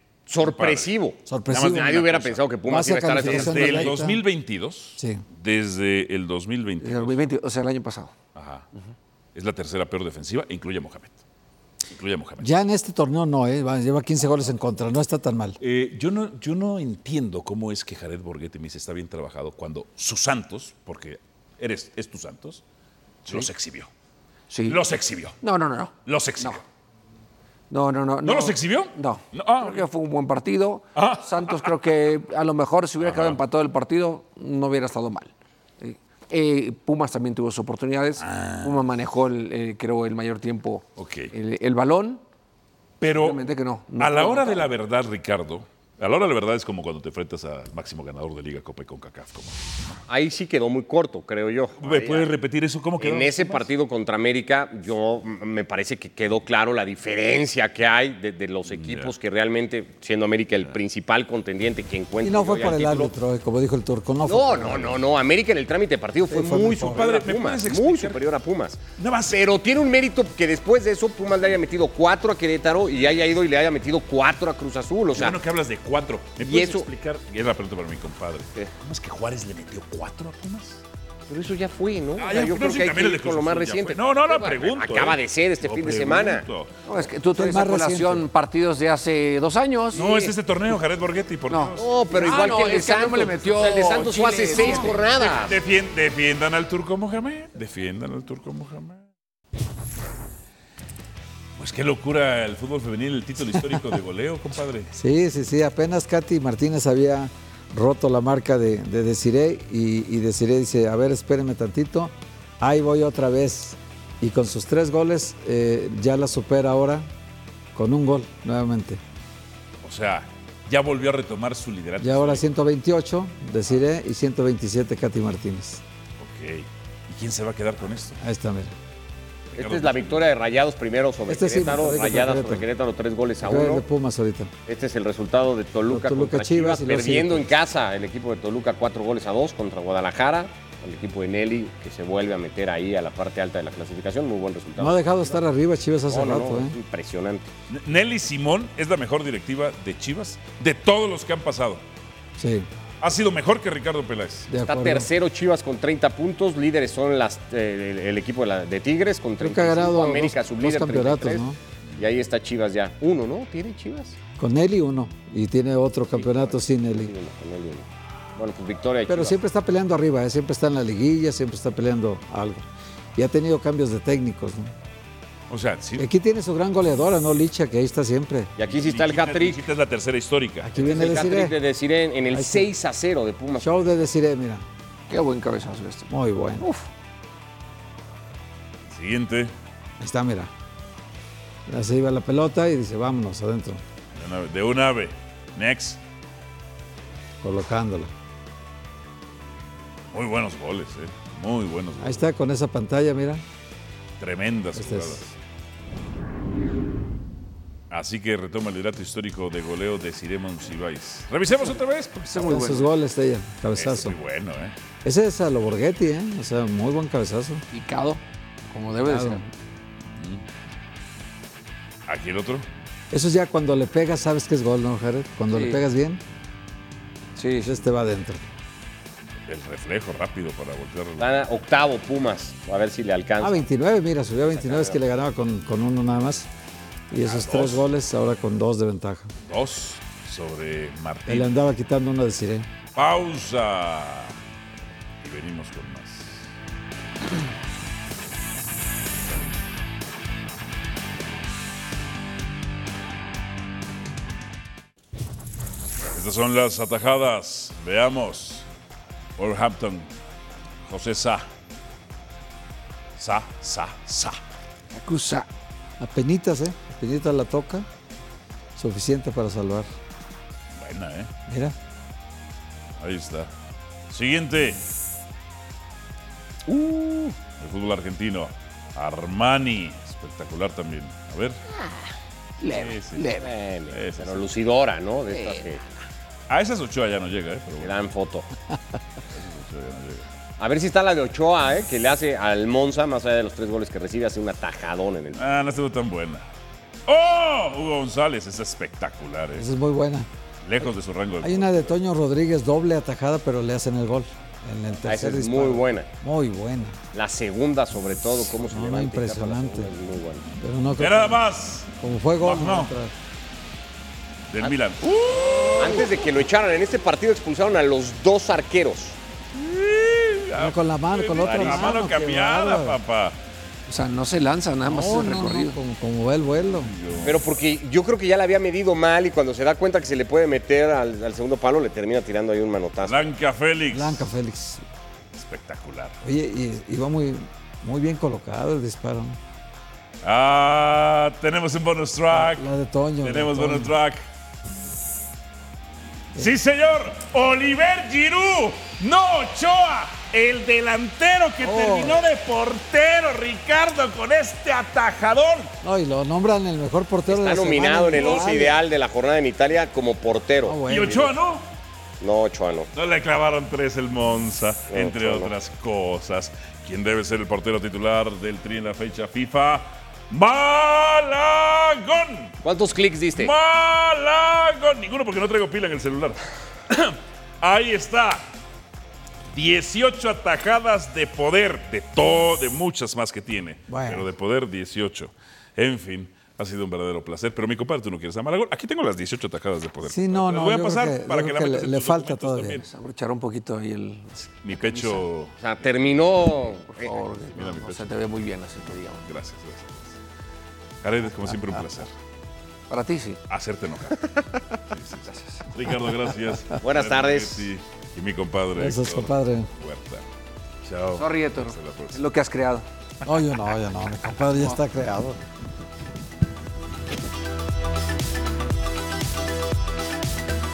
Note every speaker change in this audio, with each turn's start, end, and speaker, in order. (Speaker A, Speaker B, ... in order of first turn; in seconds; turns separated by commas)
Speaker A: 0.3-3.9, Speaker B: 0.4-0.9, Speaker C: 1.3-2.0, Speaker B: 1.5-2.5, Speaker C: 2.7-4.2, Speaker B: 3.2-7.2, Speaker C: 5.0-5.2, Speaker D: 6.8-8.1, Speaker B: 8.3-8.7, Speaker B: 9.3-11.2, Speaker B: 11.9-12.5, Speaker C: 12.4-15.6, Speaker B: 15.6-22.6, Speaker B: 23.2-23.9, Speaker D: 24.5-24.8, Speaker B: 24.6-25.4, Speaker D: 25.4-26.6, Speaker B: 26.1-26.6, Speaker D: 27.7-42.2, Speaker B: 28.2-29.9, Speaker B: 30.9-31.7, Speaker B: 33.0-33.4, Speaker B: 38.2-38.8, Speaker B: 41.0-41.3, Speaker B: 43.0-43.4, Speaker D: 43.1-44.7, Speaker B: 44.0-50.0, Speaker A: 50.1-52.3, Speaker B: 51.8-53.7, Speaker A: 53.0-63.1, Speaker B: 58.7-59.1, Speaker C: 62.2-64.9, Speaker A: 64.2-75.4, Speaker C: 66.3-67.0, Speaker B: 66.8-68.2, Speaker B: 69.0-69.5, Speaker B: 75.1-80.8, Speaker A: 76.4-76.9, Speaker A: 81.3-86.4, Speaker B: 82.2-86.7, Speaker D: 86.8-90.3, Speaker C: 87.3-88.2, Speaker B: 89.9-91.8, Speaker D: 91.5-95.0, Speaker A: 91.8-95.5, Speaker B: 94.4-99.0, Speaker B: 101.6-104.9, Speaker C: 104.9-117.1, Speaker C: 117.7-119.0, Speaker B: 119.8-122.4, Speaker C: 122.0-125.8, Speaker B: 126.2-128.2, Speaker C: 128.2-128.7, Speaker B: 129.5-130.2, Speaker A: 129.6-133.8, Speaker C: 131.3-132.7, Speaker C: 133.4-134.5, Speaker A: 134.7-145.3, Speaker C: 135.9-137.5, Speaker C: 144.8-146.8, Speaker A: 146.1-147.5, Speaker B: 147.7-151.8, Speaker C: 152.4-152.7, Speaker B: 153.0-154.5, Speaker C: 154.5-155.1, Speaker A: 154.7-161.4, Speaker C: 159.4-161.6, Speaker A: 162.0-164.2, Speaker C: 164.4-167.1, Speaker A: 166.2-169.3, Speaker C: 169.1-174.7, Speaker B: 175.5-176.1, Speaker C: 176.0-178.5, Speaker A: 178.6-179.6, Speaker B: 178.6-180.8, Speaker C: 180.6-181.6, Speaker A: 180.8-183.8, Speaker C: 182.3-182.7, Speaker C: 183.6-184.6, Speaker D: 185.1-186.8, Speaker C: 186.1-186.7, Speaker B: 188.9-189.5, Speaker C: 190.0-190.5, Speaker C: 191.7-193.8, Speaker B: 194.1-196.0, Speaker C: 197.4-198.1, Speaker B: 200.1-202.2, Speaker C: 202.0-203.4, Speaker B: 204.2-205.2, Speaker C: 204.8-205.3, Speaker B: 207.9-212.8, Speaker D: 212.3-212.9, Speaker C: 212.3-214.2, Speaker B: 213.7-214.7, Speaker C: 215.0-217.6, Speaker D: 217.7-219.4, Speaker C: 219.0-219.4, Speaker B: 220.2-220.4, Speaker B: 222.1-222.7, Speaker C: 223.1-226.2, Speaker D: 225.5-225.8, Speaker D: 227.3-227.8, Speaker C: 227.6-228.4, Speaker B: 229.5-231.4, Speaker A: 231.2-233.6, Speaker C: 233.4-236.5, Speaker A: 234.5-235.0, Speaker C: 237.1-239.3, Speaker B: 237.2-237.8, Speaker B: 239.5-241.5, Speaker C: 241.3-242.7, Speaker B: 242.9-244.4, Speaker B: 245.2-246.5, Speaker B: 256.1-258.7, Speaker B: 259.4-260.1, Speaker B: 260.9-261.5, Speaker B: 263.2-264.4, Speaker D: 264.9-265.5, Speaker C: 266.0-267.9, Speaker C: 268.8-269.9, Speaker B: 270.7-271.3, Speaker C: 271.5-271.8, Speaker B: 273.0-273.5, Speaker B: 274.1-274.8, Speaker A: 276.7-277.4, Speaker B: 277.5-281.6, Speaker D: 282.6-283.5, Speaker B: 282.6-283.3, Speaker A: 283.4-285.8, Speaker B: 283.9-284.4, Speaker D: 285.3-285.6, Speaker B: 286.5-287.9, Speaker A: 287.8-288.5, Speaker B: 289.3-290.2, Speaker A: 290.6-295.4, Speaker B: 295.3-296.4, Speaker B: 297.1-299.7, Speaker C: 299.5-300.3, Speaker B: 300.6-301.9, Speaker C: 301.4-307.0, Speaker A: 305.1-306.1, Speaker A: 307.1-310.4, Speaker C: 308.5-309.9, Speaker C: 310.6-311.4, Speaker B: 311.0-312.9, Speaker C: 312.0-313.1, Speaker B: 314.5-316.3, Speaker A: 315.8-319.2, Speaker B: 319.5-323.4, Speaker C: 320.6-323.0, Speaker A: 321.4-321.9, Speaker D: 323.9-325.8, Speaker C: 324.9-326.9, Speaker B: 326.7-327.4, Speaker A: 327.2-333.3, Speaker B: 333.0-334.2, Speaker C: 333.9-334.8, Speaker B: 335.3-336.2, Speaker C: 336.2-339.4, Speaker B: 340.2-342.7, Speaker C: 342.3-343.9, Speaker B: 343.2-344.2, Speaker B: 346.4-355.7, Speaker C: 351.6-352.2, Speaker C: 355.8-358.8, Speaker A: 357.3-361.3, Speaker B: 358.1-358.6, Speaker C: 360.6-361.3, Speaker B: 360.9-361.7, Speaker A: 362.2-362.9, Speaker B: 362.9-372.6, Speaker A: 364.9-365.5, Speaker A: 372.6-373.5, Speaker B: 373.4-378.5, Speaker B: 379.5-392.8, Speaker C: 383.9-384.3, Speaker C: 390.1-392.8, Speaker D: 392.8-395.2, Speaker B: 394.6-395.5, Speaker A: 395.6-397.1, Speaker D: 396.9-399.2, Speaker B: 397.5-398.0, Speaker B: 399.2-400.2, Speaker B: 401.0-402.1, Speaker D: 402.9-403.4, Speaker B: 403.5-410.2, Speaker A: 406.8-407.7, Speaker C: 408.7-409.7, Speaker B: 410.8-412.2, Speaker D: 411.1-412.9, Speaker C: 413.2-415.4